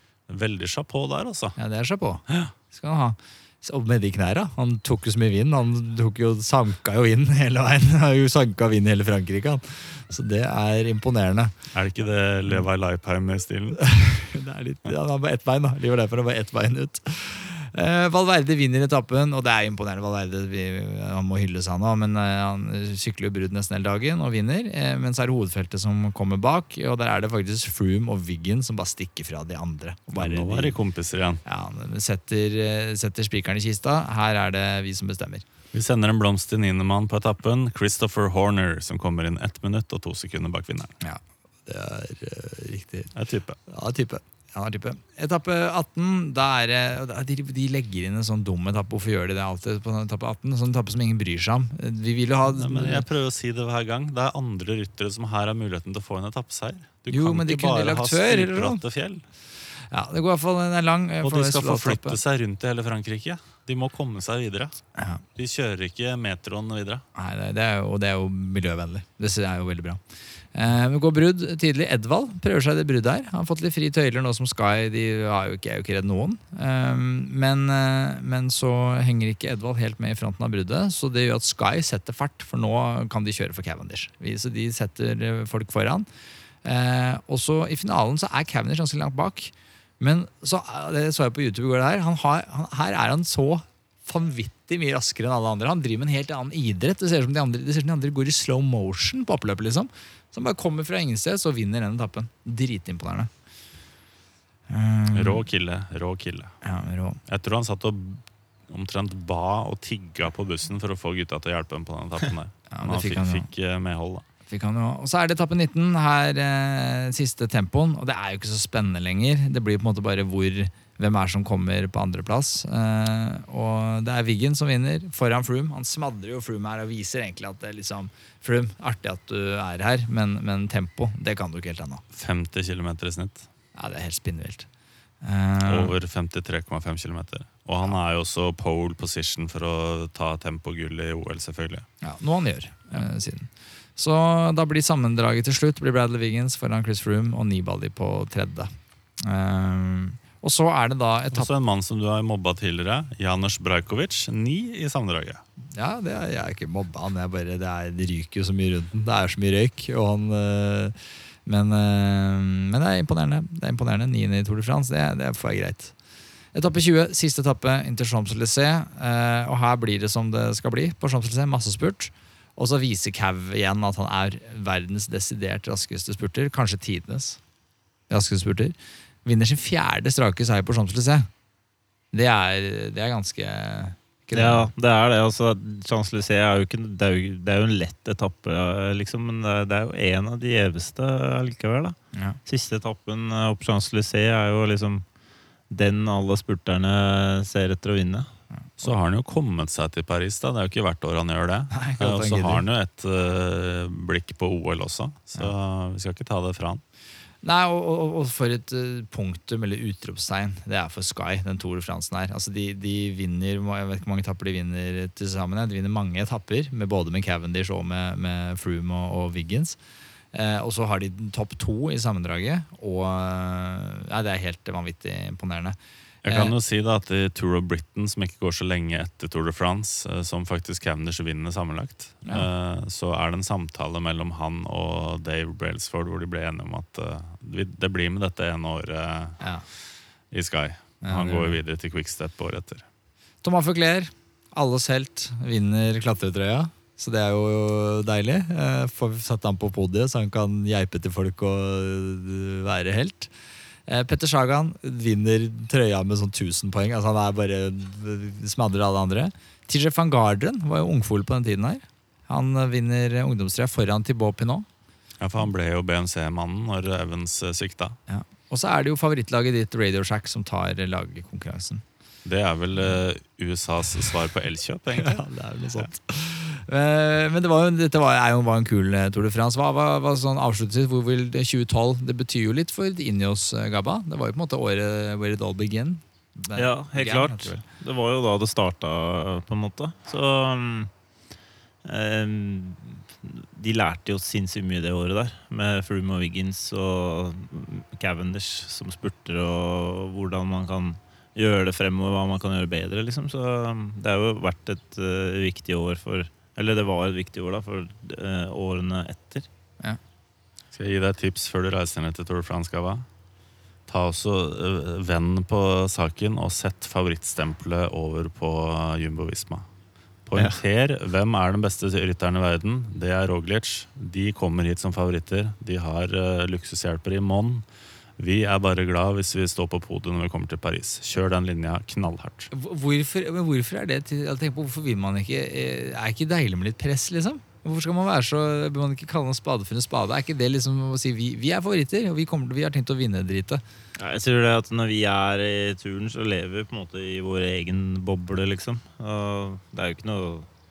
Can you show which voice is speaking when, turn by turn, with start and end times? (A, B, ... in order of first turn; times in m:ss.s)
0:00.3-0:01.6 A
0:01.6-0:11.6 B
0:02.3-0:02.5 A
0:11.7-0:13.8 A
0:13.8-0:30.8 B
0:30.2-0:31.4 A
0:31.4-0:35.5 B
0:35.7-0:41.0 A
0:41.0-0:43.1 B
0:43.2-0:43.6 A
0:43.7-0:53.0 B
0:52.5-0:59.2 A
0:57.1-0:58.8 B
0:59.9-1:02.2 B
1:01.2-1:04.8 A
1:05.0-1:05.2 B
1:05.4-1:07.0 A
1:07.2-1:10.0 B
1:10.5-1:26.1 B
1:26.6-1:43.3 B
1:44.7-1:45.4 B
1:45.1-1:46.6 A
1:46.6-1:47.2 B
1:47.3-1:54.2 A
1:52.7-1:53.5 B
1:54.5-2:12.0 B
2:12.1-2:13.5 A
2:13.8-2:14.7 B
2:15.2-2:15.9 B
2:15.7-2:21.9 A
2:22.0-2:28.7 B
2:29.2-2:31.5 B
2:31.3-2:35.4 A
2:35.7-2:45.9 B
2:46.5-2:57.4 B
2:58.1-3:01.3 B
3:02.1-3:04.7 B
3:04.3-3:15.0 C
3:12.1-3:12.4 B
3:15.7-3:18.3 C
3:18.8-3:26.8 A
3:21.7-3:22.6 B
3:27.4-3:39.8 B
3:40.3-3:46.5 B
3:46.2-3:59.4 A
3:59.4-3:59.6 B
4:00.3-4:02.8 A
4:01.0-4:01.6 B
4:03.4-4:13.3 B
4:13.9-4:24.7 B
4:25.2-4:28.0 A
4:28.1-4:31.8 B
4:32.2-4:35.2 A
4:35.0-4:47.6 B
4:46.6-4:50.9 C
4:51.8-5:09.5 C
5:10.7-5:13.1 A
5:13.9-5:19.7 A
5:20.3-5:27.6 A
5:28.2-5:32.5 A
5:32.5-5:43.6 B
5:44.0-5:50.5 C